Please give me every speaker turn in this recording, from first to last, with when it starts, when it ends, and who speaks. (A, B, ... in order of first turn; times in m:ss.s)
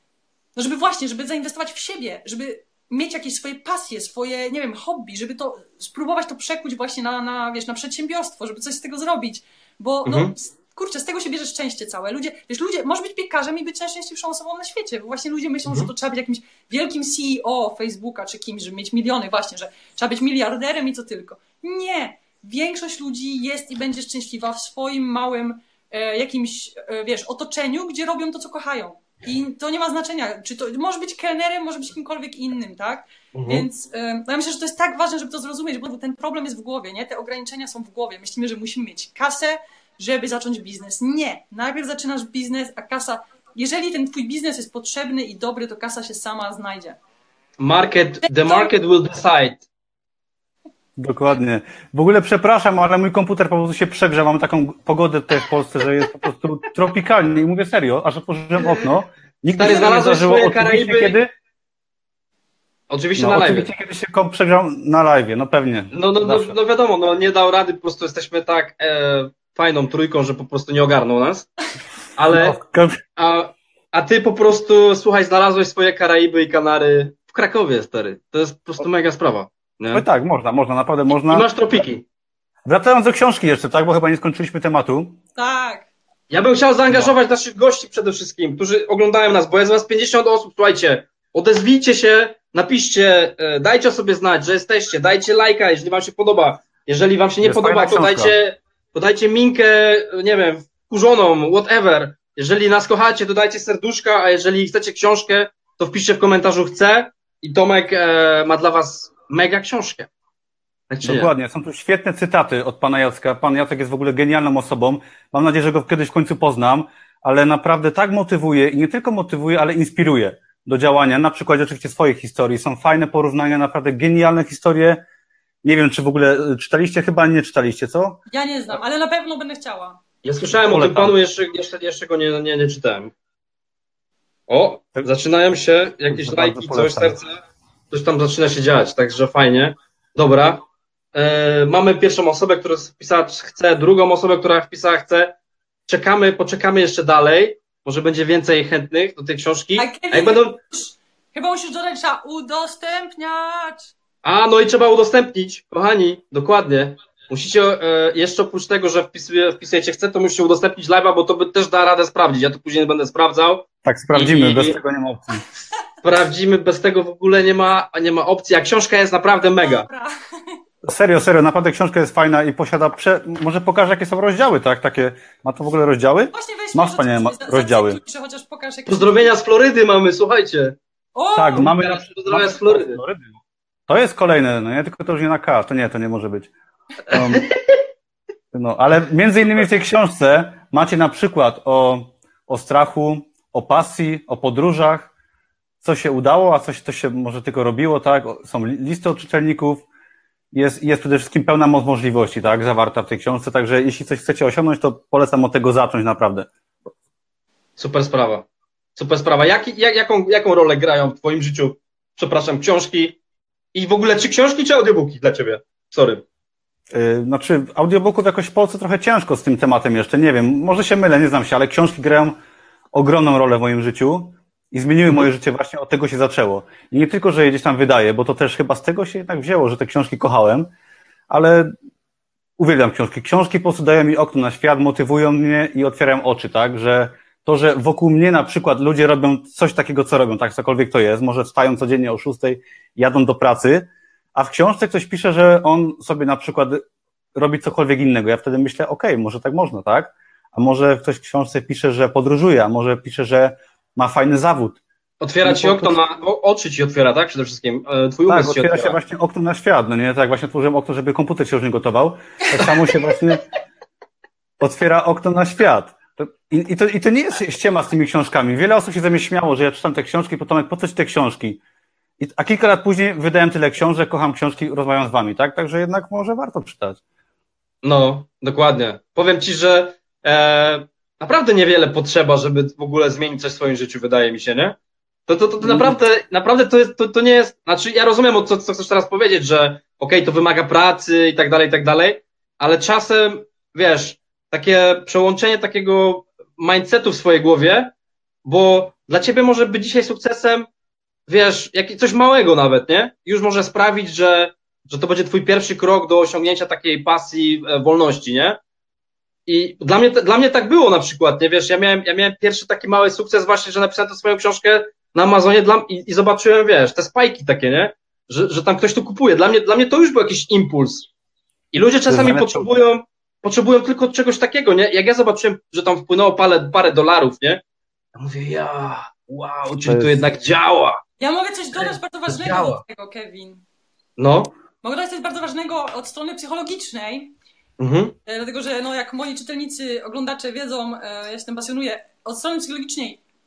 0:00.6-0:47.0 A
0:10.1-0:10.3 B
0:33.3-0:33.7 B
0:47.6-0:49.6 B
0:48.3-0:48.8 A
0:51.0-1:01.3 C
0:59.6-1:01.2 B
0:59.6-0:59.9 A
1:02.9-1:03.7 B
1:03.2-1:06.6 C
1:05.9-1:11.5 B
1:12.2-1:12.6 B
1:12.3-1:13.0 C
1:13.2-1:20.0 B
1:19.9-1:21.5 C
1:21.1-1:22.0 B
1:22.7-1:25.2 C
1:25.4-1:25.9 A
1:26.3-1:50.1 B
1:37.4-1:38.4 C
1:50.9-1:51.3 B
1:51.0-2:05.0 C
2:05.6-2:08.2 C
2:08.3-2:10.0 A
2:10.2-2:13.1 B
2:10.5-2:11.1 C
2:14.5-2:17.4 B
2:16.1-2:17.2 C
2:17.9-2:20.6 B
2:21.1-2:25.4 B
2:25.9-2:30.6 B
2:29.8-2:33.9 A
2:34.2-2:44.8 B
2:43.8-2:45.4 C
2:46.0-2:49.9 B
2:49.3-2:50.6 A
2:50.9-2:58.0 C
2:56.3-2:59.3 A
2:58.9-3:00.8 B
3:01.1-3:01.7 A
3:01.4-3:03.3 C
3:01.6-3:03.0 B
3:03.9-3:06.5 C
3:07.1-3:07.5 C
3:07.1-3:07.5 B
3:08.5-3:15.1 C
3:15.8-3:19.8 C
3:20.5-3:26.5 C
3:27.8-3:33.2 B
3:33.7-3:36.2 B
3:36.9-3:42.4 C
3:42.9-3:50.7 C
3:51.3-3:51.7 C
3:52.6-4:06.8 C
4:07.4-4:14.8 C
4:15.2-4:19.0 B
4:15.4-4:16.0 C
4:18.3-4:23.4 C
4:24.6-4:31.6 C
4:32.2-4:37.0 C
4:37.8-4:57.9 B
4:45.6-4:46.0 C
4:58.4-5:00.7 B
5:01.3-5:08.6 B
5:09.5-5:21.1 B
5:21.7-5:27.6 B
5:22.1-5:22.7 C
5:28.2-5:31.0 B
5:29.8-5:30.2 C
5:31.2-5:33.6 A
5:31.7-5:32.8 B
5:34.2-5:34.5 B
5:34.8-5:37.3 A
5:37.8-5:38.2 B
5:38.3-5:43.2 A